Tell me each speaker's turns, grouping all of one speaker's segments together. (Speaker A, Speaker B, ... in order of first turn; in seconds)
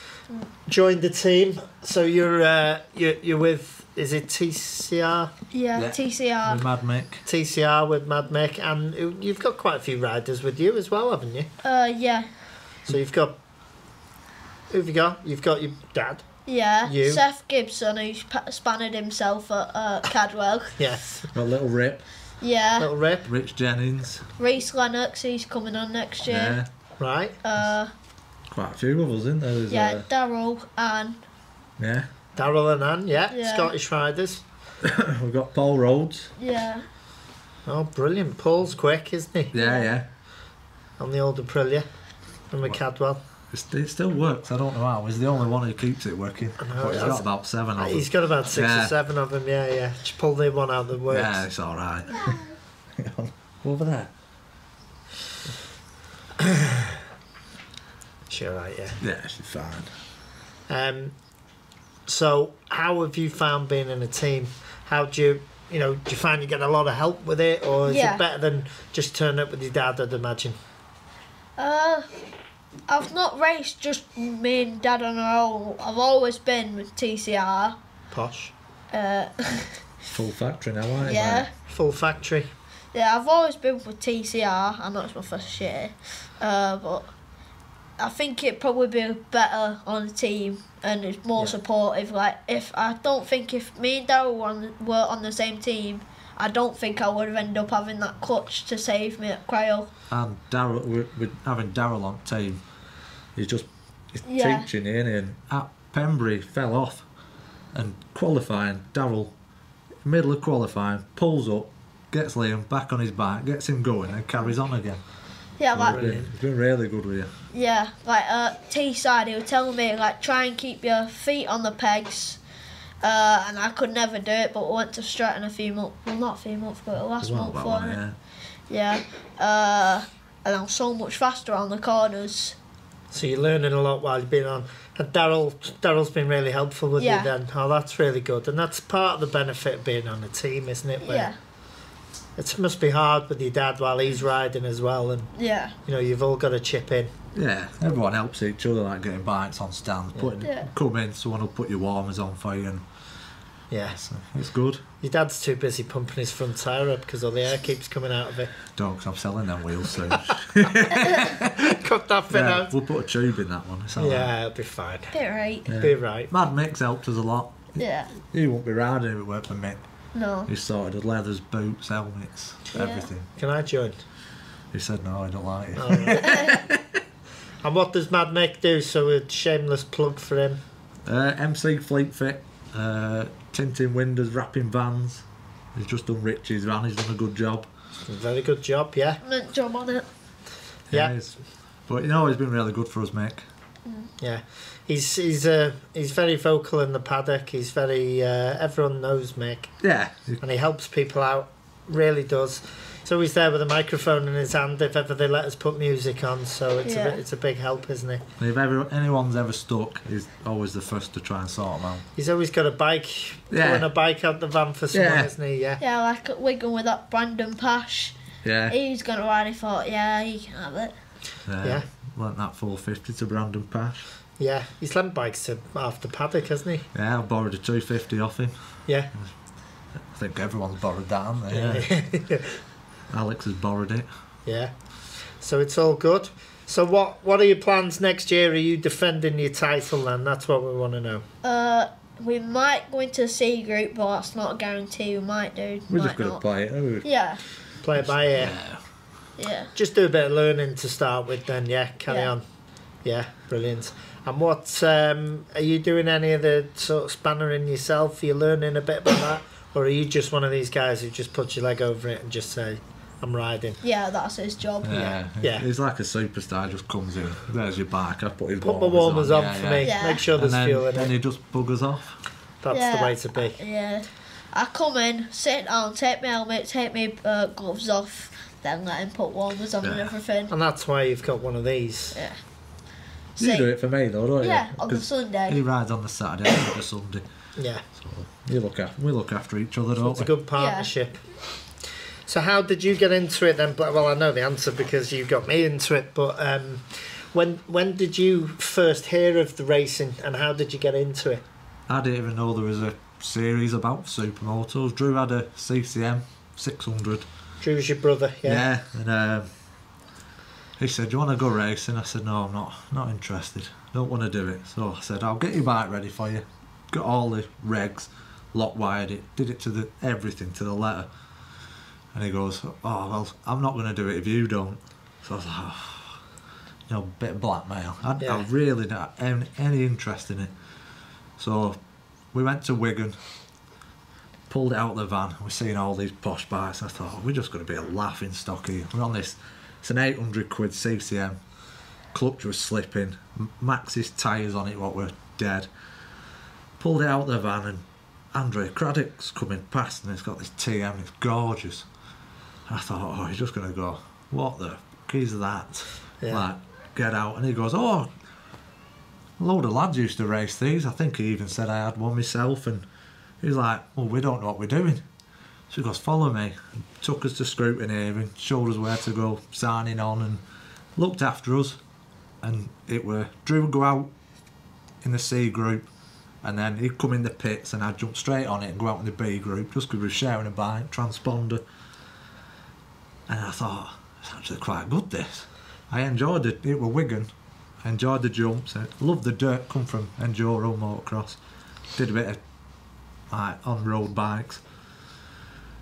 Speaker A: 0.7-5.3, 7.2-11.5, 12.9-13.4, 14.7-16.2, 16.8-17.2, 20.8-21.3, 22.8-23.3, 27.0-27.4, 32.4-34.4, 37.7-39.5, 41.0-41.9, 42.5-43.2, 46.6-51.5, 56.4-57.0, 58.3-59.0, 60.7-61.1, 62.1-70.6, 78.1-78.5, 81.7-82.5, 115.9-116.3, 133.1-141.3, 142.4-145.3, 145.9-147.1, 153.7-154.0, 155.0-158.5, 161.0-162.7, 164.0-165.1, 165.8-166.3, 173.4-174.0, 175.8-176.4, 177.6-180.6, 188.1-189.2, 194.2-199.7, 200.4-208.2, 212.2-215.8, 224.4-226.9, 231.5-232.6, 234.5-234.7, 235.4-241.2, 247.8-248.6, 249.8-252.4, 253.0-263.8, 265.4-265.6, 268.6-271.1, 272.6-273.6, 280.5-282.2, 287.6-287.8, 290.0-291.2, 292.3-301.4, 307.6-308.6, 328.2-328.5
Speaker B: 5.5-6.6, 11.6-12.3, 16.5-20.8, 22.4-22.9, 24.4-26.6, 27.4-27.9, 29.7-31.2, 33.3-33.7, 36.4-36.9, 39.5-39.9, 52.2-52.4, 67.9-68.2, 71.6-72.1, 72.9-77.8, 78.9-79.8, 81.0-81.5, 82.9-87.1, 88.0-99.9, 104.2-104.7, 115.6-116.2, 117.5-122.4, 123.0-128.0, 128.7-132.6, 137.0-137.3, 141.0-141.3, 145.4-145.7, 150.4-150.7, 165.1-165.7, 167.8-168.1, 170.1-170.5, 172.7-173.1, 176.2-176.6, 189.2-190.1, 206.8-207.2, 215.8-218.2, 218.7-220.9, 241.4-246.4, 247.0-247.4, 249.4-249.7, 263.8-265.2, 269.8-270.2, 272.7-280.5, 283.4-283.7, 284.4-285.6, 290.6-290.9
Speaker C: 5.8-7.2, 21.3-22.1, 23.2-24.3, 26.2-26.7, 28.5-30.1, 31.8-32.1, 34.8-36.3, 39.5-40.1, 43.5-48.9, 51.1-52.4, 53.0-54.1, 59.0-59.9, 80.1-81.5, 100.1-102.6, 103.4-107.0, 107.7-109.3, 110.0-115.0, 115.7-117.3, 127.2-128.2, 147.3-152.8, 153.9-154.8, 158.7-161.8, 162.3-164.3, 165.7-169.8, 170.5-173.3, 174.7-177.0, 181.1-185.2, 185.8-187.7, 190.9-193.4, 199.8-200.4, 208.4-212.1, 213.5-213.9, 214.9-215.3, 218.4-218.8, 221.5-224.1, 226.9-228.6, 230.0-231.9, 233.1-234.1, 245.9-247.1, 248.0-248.8, 264.8-272.1, 279.8-280.1, 283.4-287.2, 288.0-290.3, 301.9-307.3, 308.4-309.5, 310.8-321.1, 322.1-326.2, 326.9-330.5, 331.4-331.8, 332.3-333.2, 334.5-341.4, 342.1-345.7, 346.8-351.9, 352.7-358.1, 359.4-362.9, 363.4-365.0, 365.7-370.4, 371.0-371.8, 372.4-374.1, 375.0-375.9, 376.4-381.6, 383.3-387.3, 387.8-391.4, 392.0-392.4, 393.3-394.6